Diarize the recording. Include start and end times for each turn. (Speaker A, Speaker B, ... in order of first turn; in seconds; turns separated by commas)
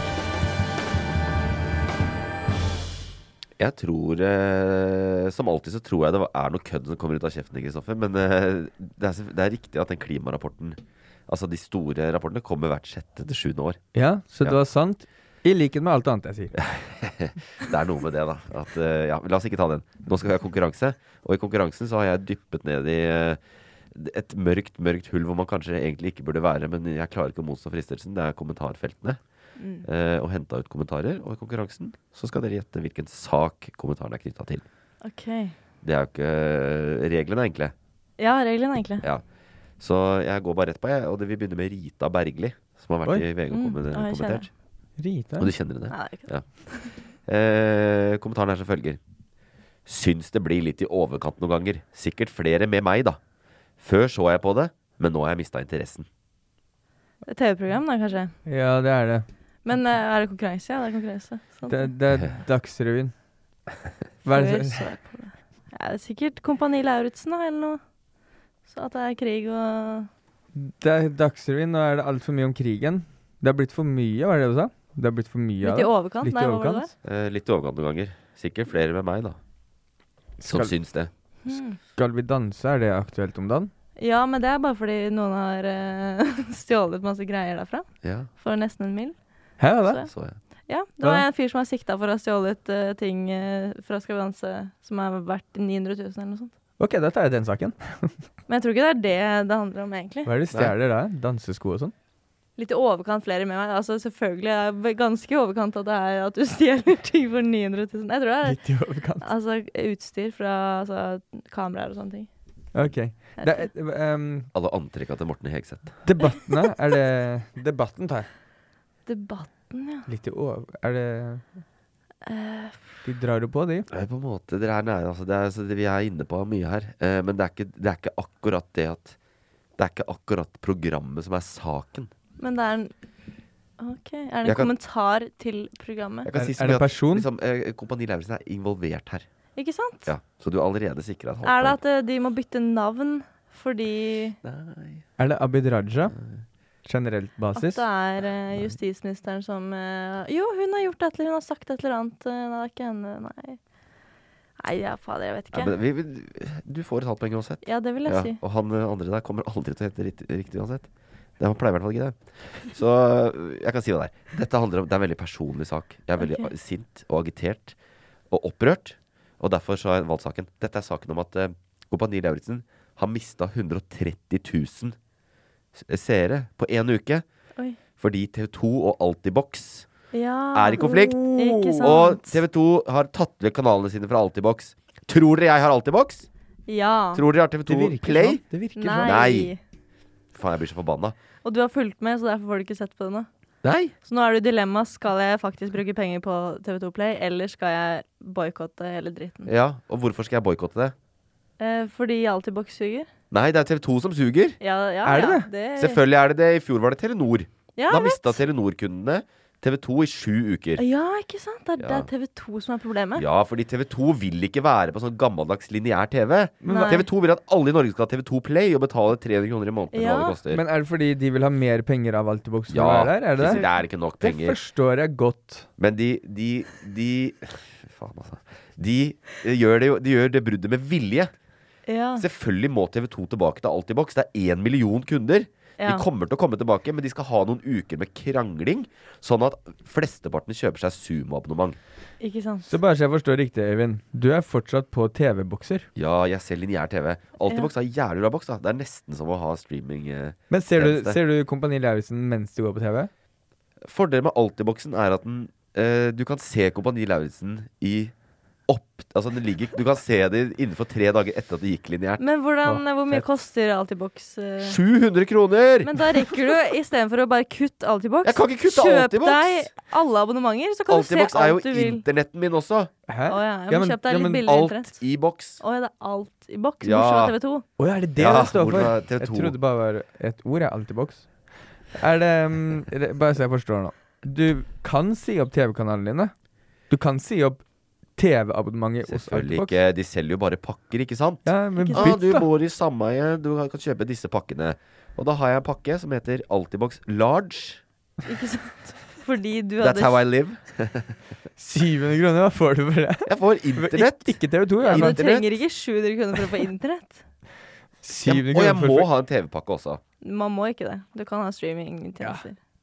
Speaker A: 3.6-13.8, Speaker B: 13.9-16.6, Speaker A: 16.6-23.4, Speaker A: 23.9-29.2, Speaker C: 29.6-29.9, Speaker A: 29.8-34.6, Speaker C: 35.0-35.6, Speaker A: 35.8-37.7, Speaker C: 38.2-39.0, Speaker A: 39.8-44.5, Speaker C: 43.5-44.5, Speaker B: 45.0-45.5, Speaker A: 45.4-46.5, Speaker C: 45.9-47.0, Speaker A: 47.2-49.0, Speaker A: 49.9-53.2, Speaker A: 53.8-56.1, Speaker C: 57.3-58.3, Speaker B: 58.5-59.3, Speaker C: 59.6-61.9, Speaker B: 61.7-63.1, Speaker B: 64.2-65.0, Speaker C: 64.3-67.8, Speaker C: 68.7-70.1, Speaker B: 70.5-76.9, Speaker C: 75.6-76.9, Speaker A: 77.0-79.4, Speaker B: 80.4-80.8, Speaker A: 80.5-81.1, Speaker C: 81.5-81.8, Speaker B: 82.0-83.7, Speaker C: 84.0-90.1, Speaker A: 88.0-88.3, Speaker B: 89.6-90.0, Speaker A: 90.1-90.4, Speaker C: 90.7-96.5, Speaker B: 96.8-98.2, Speaker C: 98.5-100.3, Speaker B: 100.3-101.9, Speaker C: 102.6-108.6, Speaker B: 108.4-109.3, Speaker C: 109.2-112.3, Speaker B: 112.7-114.5, Speaker C: 113.4-113.7, Speaker A: 114.5-116.0, Speaker B: 116.0-118.3, Speaker C: 119.1-120.1, Speaker B: 120.1-121.5, Speaker C: 122.2-122.9, Speaker B: 123.0-123.9, Speaker A: 123.9-129.2, Speaker A: 129.8-132.1, Speaker C: 132.4-132.9, Speaker C: 133.8-136.3, Speaker A: 134.4-134.7, Speaker A: 136.2-139.3, Speaker B: 136.3-137.3, Speaker C: 139.6-140.1, Speaker A: 140.1-141.8, Speaker C: 141.4-144.4, Speaker A: 144.4-145.1, Speaker B: 145.2-146.1, Speaker A: 146.1-146.4, Speaker B: 146.8-147.8, Speaker C: 147.6-153.6, Speaker C: 154.6-155.7, Speaker A: 155.5-167.8, Speaker C: 157.6-158.4, Speaker C: 166.2-166.5, Speaker A: 168.3-175.0, Speaker A: 175.8-177.2, Speaker A: 178.0-179.9, Speaker C: 180.1-182.2, Speaker A: 180.5-186.3, Speaker B: 180.8-182.1, Speaker C: 186.7-187.2, Speaker A: 187.1-188.4, Speaker B: 187.7-189.2, Speaker C: 188.8-189.6, Speaker A: 189.0-189.5, Speaker A: 190.3-191.2, Speaker C: 191.4-193.3, Speaker A: 193.6-193.9, Speaker C: 194.1-199.5, Speaker A: 199.5-200.9, Speaker C: 201.6-203.1, Speaker A: 203.3-204.6, Speaker C: 204.6-206.0, Speaker B: 205.1-205.5, Speaker A: 205.8-210.8, Speaker C: 207.8-208.4, Speaker C: 210.8-213.2, Speaker A: 211.8-212.1, Speaker A: 213.2-220.6, Speaker B: 216.6-217.1, Speaker C: 216.7-217.0, Speaker C: 219.9-220.4, Speaker B: 220.5-223.7, Speaker A: 222.7-224.6, Speaker C: 223.4-223.8, Speaker B: 224.2-225.7, Speaker A: 225.8-231.3, Speaker C: 231.9-232.2, Speaker A: 232.2-241.8, Speaker C: 235.8-236.1, Speaker C: 242.2-242.7, Speaker B: 242.7-245.9, Speaker A: 246.0-251.2, Speaker B: 250.5-253.1, Speaker A: 253.8-258.1, Speaker A: 258.7-262.2, Speaker C: 262.2-264.8, Speaker B: 262.6-263.3, Speaker A: 264.6-265.9, Speaker C: 265.8-272.0, Speaker A: 268.2-269.7, Speaker A: 270.9-272.9, Speaker B: 273.1-274.5, Speaker C: 273.3-275.0, Speaker A: 274.4-275.6, Speaker C: 275.6-277.6, Speaker A: 276.8-277.3, Speaker B: 277.8-286.3, Speaker A: 278.2-279.6, Speaker B: 286.9-287.6, Speaker B: 288.2-289.7, Speaker A: 289.1-297.8, Speaker B: 291.4-292.5, Speaker C: 291.8-292.1, Speaker C: 298.3-300.2, Speaker A: 299.8-301.2, Speaker B: 301.6-305.2, Speaker A: 303.3-305.5, Speaker C: 304.8-307.2, Speaker B: 308.0-309.1, Speaker A: 308.2-310.0, Speaker C: 310.2-312.6